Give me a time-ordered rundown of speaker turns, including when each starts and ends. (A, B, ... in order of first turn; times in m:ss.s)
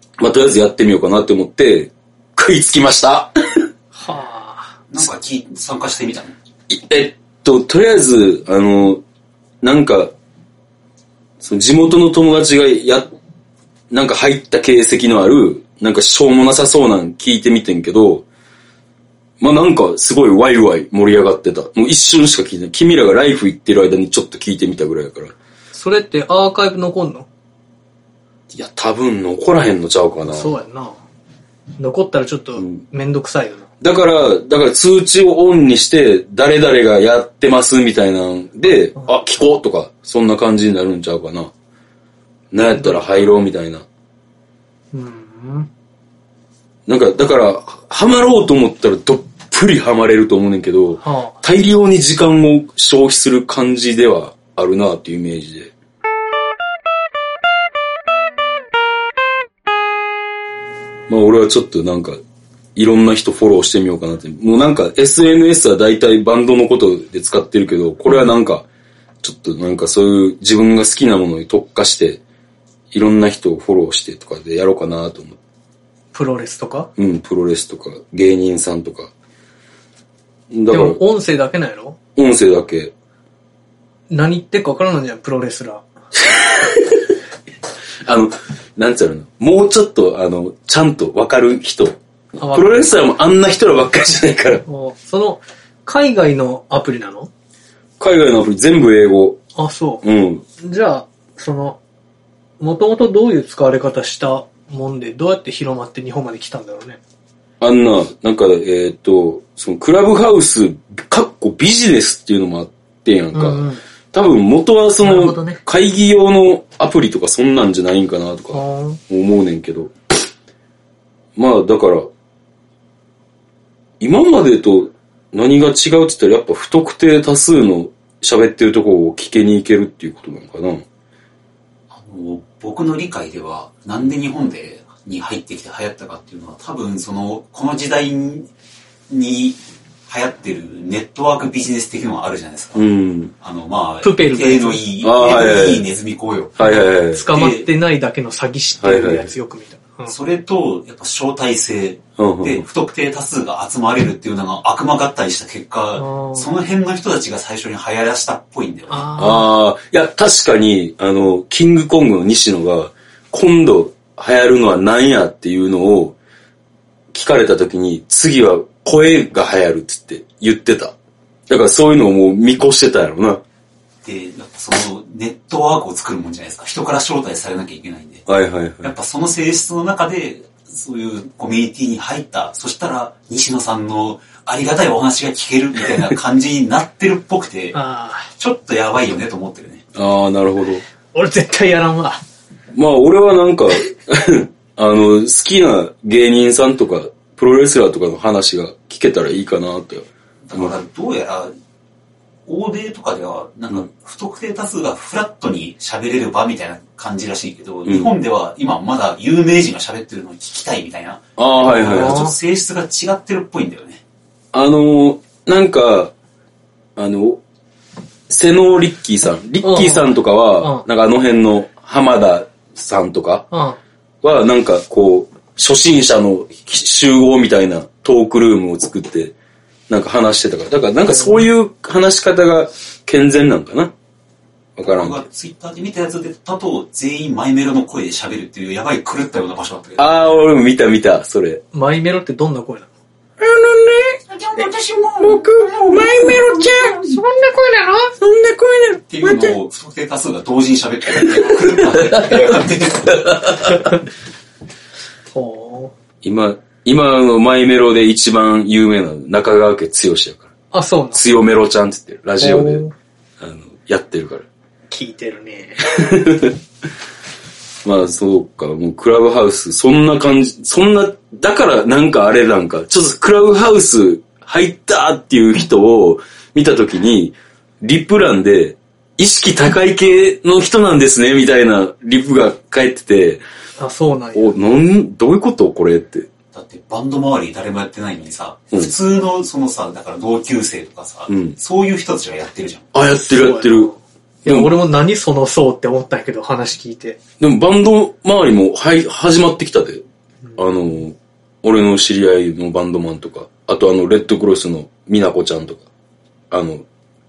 0:00.2-0:03.7 A
0:04.0-0:04.8 B
0:04.9-0:06.3 C
0:06.7-0:09.0 A
0:09.6-0:10.1 A
0:11.4-0:13.1 A
0:13.9-0:18.2 A
0:19.4-0:25.3 A
0:25.7-0:27.3 B
0:28.5-0:30.6 A
0:30.3-0:31.0 B
0:31.8-0:33.6 B
0:33.8-0:41.5 A
0:42.5-0:43.8 A
0:42.6-0:43.3 B
0:44.9-0:45.7 B
0:46.8-0:55.7 A
0:51.0-0:51.4 B
1:01.1-1:02.2 A
1:02.7-1:08.6 A
1:08.1-1:08.3 B
1:09.2-1:12.2 A
1:12.9-1:15.4 A
1:16.1-1:16.9 B
1:17.0-1:19.1 A
1:20.5-1:21.0 A
1:20.7-1:22.0 B
1:22.2-1:22.9 A
1:24.1-1:25.8 B
1:26.2-1:27.1 A
1:28.0-1:34.6 A
1:32.4-1:32.9 B
1:34.7-1:37.3 B
1:38.0-1:39.4 A
1:39.6-1:40.0 B
1:40.0-1:40.4 A
1:40.6-1:41.8 B
1:42.6-1:47.0 B
1:47.6-1:59.9 A
1:53.3-1:53.8 B
1:55.0-1:55.6 B
1:58.5-1:59.0 B
2:01.4-2:02.1 A
2:04.0-2:10.8 A
2:11.9-2:18.5 C
2:19.1-2:22.9 C
2:22.8-2:23.3 A
2:23.4-2:26.6 C
2:24.0-2:24.8 B
2:25.0-2:25.9 A
2:26.6-2:27.5 A
2:26.6-2:30.1 B
2:28.8-2:29.3 A
2:30.1-2:39.1 C
2:32.2-2:32.6 A
2:36.0-2:36.5 B
2:38.9-2:39.5 B
2:39.2-2:46.2 A
2:47.1-2:50.9 A
2:51.5-2:53.4 A
2:54.0-2:58.2 C
2:58.3-2:58.9 A
2:58.8-3:07.8 C
3:07.7-3:08.3 B
3:08.4-3:09.8 C
3:09.9-3:10.8 A
3:11.1-3:12.2 B
3:12.7-3:20.7 A
3:20.4-3:21.5 C
3:22.5-3:34.0 C
3:27.8-3:28.1 A
3:31.4-3:32.3 A
3:31.6-3:32.4 B
3:34.5-3:36.1 A
3:37.0-3:37.4 A
3:38.3-3:43.5 A
3:39.6-3:40.8 B
3:43.5-3:43.8 B
3:44.2-3:49.3 A
3:49.9-3:53.9 A
3:51.1-3:51.5 B
3:54.8-3:55.2 A
3:54.9-4:00.1 C
4:00.0-4:01.6 A
4:01.7-4:02.9 B
4:03.4-4:04.2 A
4:04.3-4:06.9 C
4:05.2-4:09.5 A
4:07.8-4:08.1 B
4:09.1-4:13.6 C
4:11.1-4:13.9 A
4:15.3-4:15.9 B
4:16.2-4:20.5 A
4:20.7-4:21.2 B
4:21.1-4:22.8 A
4:22.4-4:22.9 B
4:23.4-4:24.4 A
4:24.9-4:25.8 B
4:25.9-4:26.6 A
4:27.8-4:43.4 A
4:43.8-4:44.5 B
4:44.3-4:46.3 A
4:46.5-4:52.9 C
4:51.3-4:51.6 A
4:52.9-4:53.9 A
4:53.1-4:57.2 B
4:54.4-4:54.7 A
4:57.4-5:00.0 A
5:00.6-5:05.8 A
5:06.5-5:06.8 A